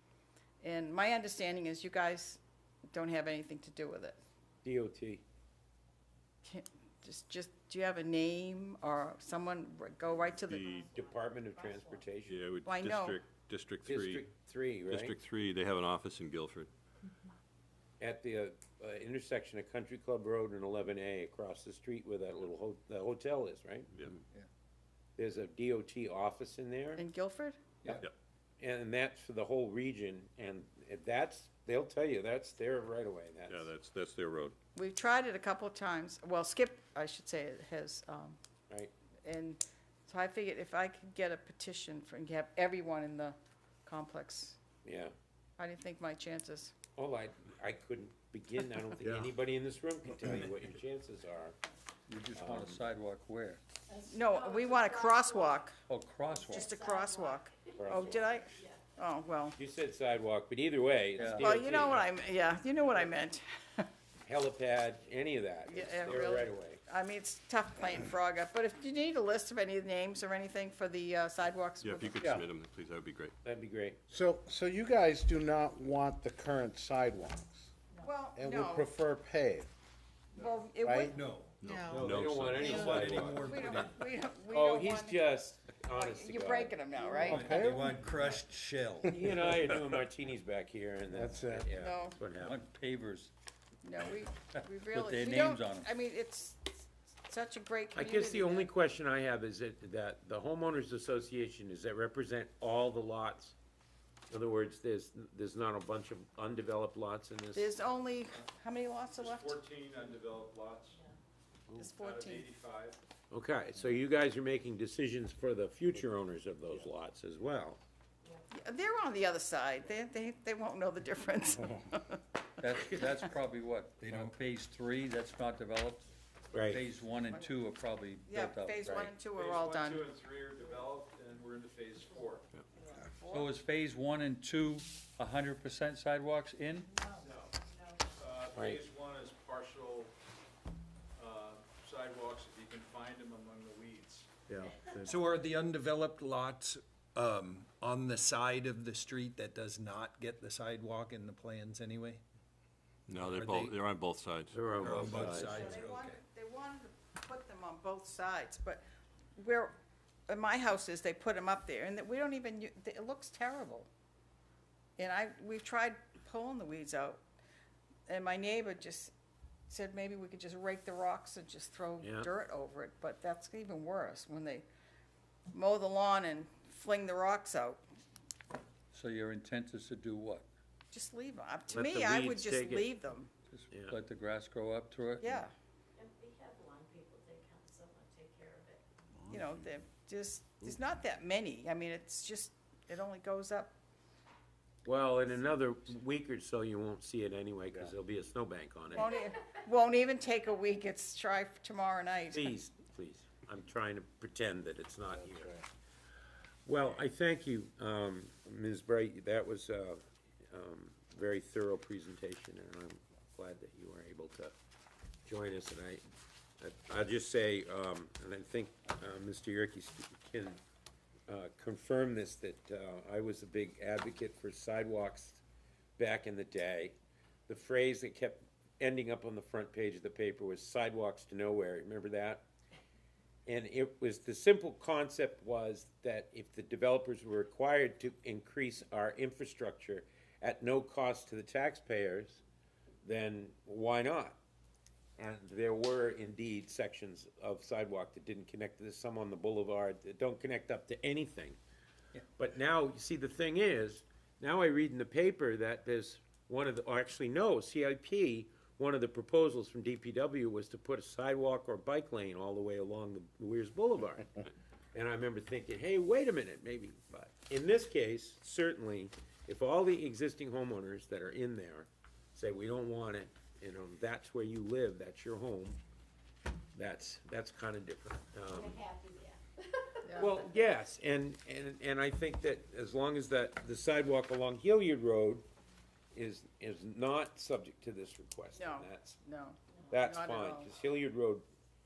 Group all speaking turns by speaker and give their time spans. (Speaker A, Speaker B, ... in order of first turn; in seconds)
Speaker A: 0.6-4.2, 6.4-10.7, 12.7-13.2, 27.0-27.6, 34.8-38.4, 39.2-44.6, 45.6-46.7, 54.1-55.8, 56.5-59.6, 61.3-63.9, 65.7-72.2, 78.0-78.9, 80.4-81.2, 82.7-85.2, 86.0-87.5, 91.8-92.2, 93.8-98.7, 107.5-109.6, 111.8-112.5, 118.5-122.2, 128.3-130.1, 133.1-133.5, 155.3-158.8, 159.4-159.8, 160.3-163.9, 165.0-167.2, 168.1-169.1, 169.7-174.7, 175.5-177.8, 180.9-183.3, 185.2-185.5, 189.3-193.7, 198.9-202.6, 288.6-290.7
Speaker B: 4.6-5.2, 10.8-12.4, 13.8-15.2, 18.0-23.9, 25.2-27.0, 28.6-33.7, 44.8-45.1, 47.0-51.6, 52.3-52.8, 57.8-58.3, 59.6-62.1, 64.2-66.8, 73.4-74.0, 81.9-83.5, 84.5-86.7, 89.0-92.6, 98.0-103.5, 104.3-107.8, 113.3-117.8, 126.5-126.9, 138.6-138.8, 154.5-155.8, 172.0-172.3, 181.7-182.9, 183.7-184.0, 194.8-199.1, 202.3-205.6, 206.7-214.6, 215.3-216.0, 216.6-220.6, 221.3-225.4, 226.0-227.0, 227.5-232.4, 233.5-242.4, 243.0-244.4, 245.2-251.6, 252.3-275.8, 276.8-278.8, 280.1-285.5, 286.1-289.2, 289.9-291.5
Speaker C: 10.1-12.1, 53.9-55.6, 56.5-58.8, 132.0-133.1, 136.9-138.0, 186.0-188.8, 278.5-280.3
Speaker D: 10.5-10.9, 12.2-14.3, 14.9-16.7, 33.5-34.6, 71.8-73.3, 81.6-83.4, 153.1-155.4
Speaker E: 52.1-53.6, 55.9-56.7, 61.2-61.5, 92.4-93.3, 94.9-95.9, 122.6-126.1, 126.6-129.1, 133.2-136.9, 178.9-180.5, 183.5-185.5
Speaker F: 74.1-77.7, 78.4-79.7, 80.8-81.2, 87.0-87.9, 91.1-91.7, 128.8-129.1, 144.5-145.1, 205.2-205.6
Speaker G: 81.1-81.5, 82.5-83.9, 87.3-89.7, 124.0-124.3, 145.0-152.2, 153.1-153.8, 154.7-156.2
Speaker H: 109.2-111.0, 112.0-113.0, 129.3-132.4, 138.1-140.1, 141.2-144.3